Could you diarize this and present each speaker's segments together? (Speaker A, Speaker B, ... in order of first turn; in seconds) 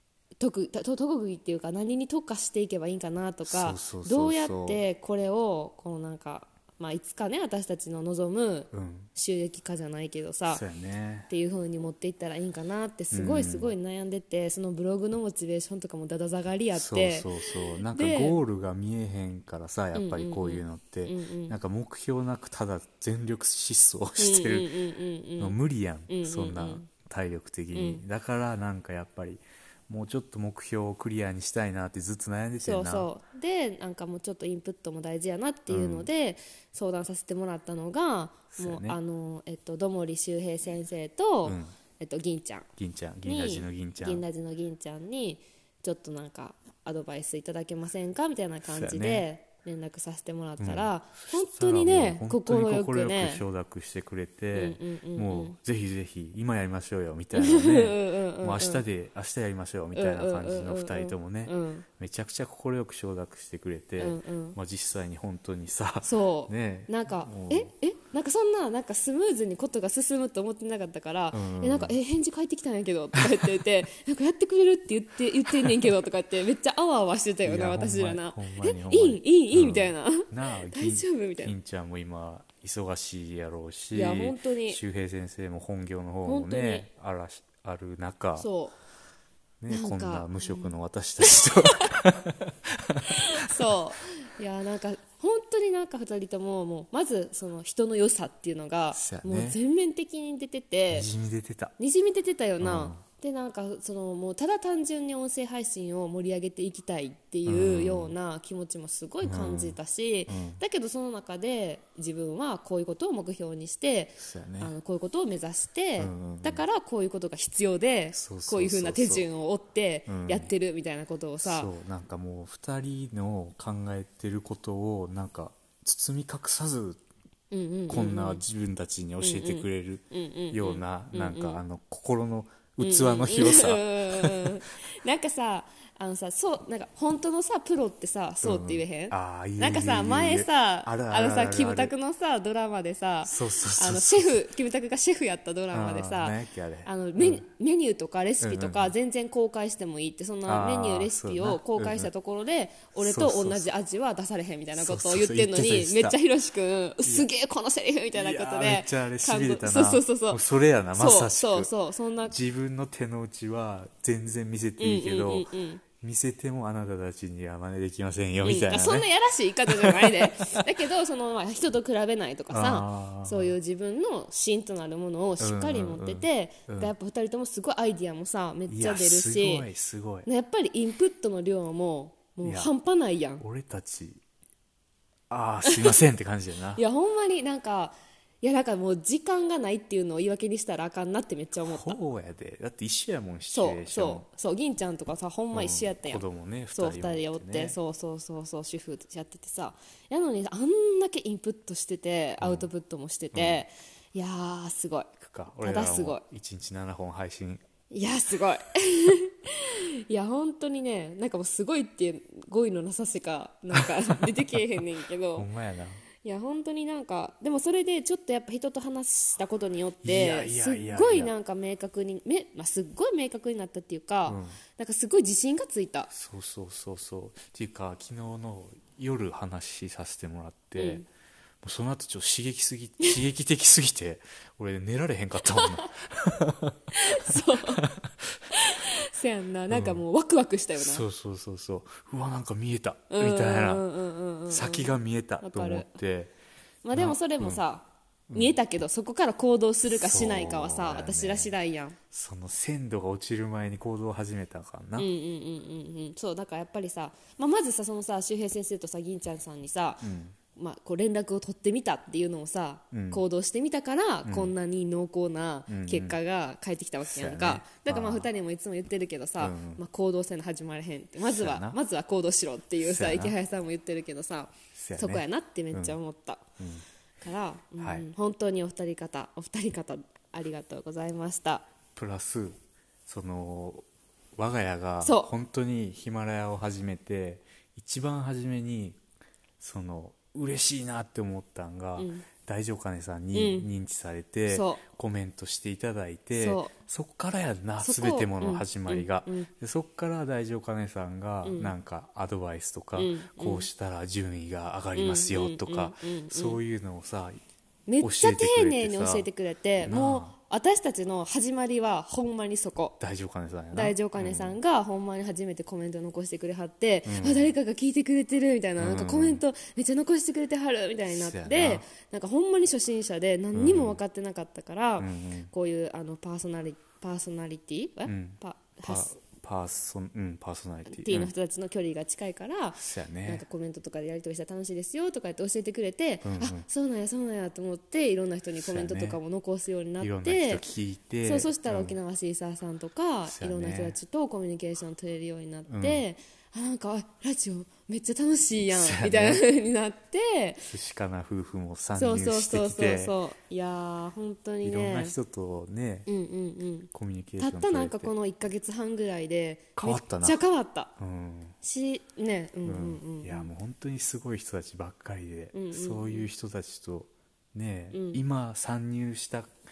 Speaker A: 0.4-10.6, 11.3-18.4, 19.9-21.6, 24.2-25.6, 26.1-26.9, 27.7-28.0, 32.6-42.7, 43.2-53.4, 54.5-55.6, 57.3-58.9, 59.9-61.9, 64.0-64.6, 66.0-81.5, 83.9-84.8, 86.2-86.9, 88.4-88.8, 89.7-92.0, 93.1-101.1, 101.8-121.7, 127.5-128.4, 129.2-131.6, 132.8-160.4, 161.0-162.4, 164.8-165.8, 168.4-179.7, 180.3-183.4, 185.6-186.0, 186.8-192.0, 193.5-206.2, 207.9-215.5, 216.2-226.1, 230.8-231.1, 235.5-235.9, 236.9-237.8, 238.5-241.0, 243.1-246.0, 246.8-252.0, 255.0-276.4, 277.2-281.7, 285.0-285.3, 292.0-292.3, 293.3-293.7, 294.5-294.8, 296.4-296.7, 297.8-299.5, 301.4-301.7, 303.0-303.7, 304.9-306.6, 307.9-313.0, 313.7-329.1, 330.9-340.6, 341.2-350.7, 352.0-355.2, 356.1-360.9, 361.6-363.5, 365.5-366.3, 367.9-368.2
Speaker B: 3.5-4.8, 8.7-9.1, 10.5-11.3, 13.1-13.7, 16.8-24.7, 25.4-33.1, 35.7-36.1, 38.5-39.0, 41.5-41.8, 42.8-44.2, 48.6-49.3, 50.6-67.7, 71.3-72.0, 73.2-73.5, 77.4-88.5, 89.6-93.7, 98.9-99.6, 100.9-101.7, 102.6-103.0, 107.5-108.2, 109.2-110.6, 114.2-114.7, 116.0-116.6, 118.1-119.3, 120.1-120.5, 121.4-127.0, 127.9-134.6, 138.4-141.9, 143.2-144.4, 145.7-147.4, 148.4-148.9, 150.5-152.1, 153.0-153.7, 154.8-156.2, 157.0-157.3, 158.1-161.7, 162.3-165.5, 166.0-169.1, 169.7-170.7, 172.5-173.6, 175.4-176.9, 178.7-180.3, 182.4-182.7, 183.4-184.2, 185.3-186.8, 191.6-194.3, 195.5-197.8, 202.4-202.7, 203.3-203.6, 205.2-207.6, 213.7-214.7, 215.3-216.0, 220.0-221.3, 224.3-224.6, 226.1-231.1, 231.6-238.4, 239.7-240.0, 240.8-243.9, 244.5-246.3, 246.9-247.6, 248.3-248.6, 249.9-251.5, 252.1-255.1, 260.0-260.4, 262.9-263.2, 264.2-264.5, 265.7-266.2, 267.0-268.3, 269.4-269.8, 271.2-271.8, 272.8-273.4, 274.7-276.0, 276.6-276.9, 277.8-278.1, 281.9-289.0, 289.6-307.4, 308.0-309.3, 309.8-310.3, 313.0-314.6, 317.1-317.5, 318.8-319.4, 321.1-321.9, 323.5-324.0, 325.0-325.5, 328.1-331.3, 332.8-333.4, 336.2-336.6, 338.6-339.2, 340.0-342.0, 343.3-344.0, 345.7-346.0, 348.7-349.4, 350.7-353.2, 354.6-356.1, 356.9-358.1, 359.8-360.4, 361.0-361.6, 362.6-369.5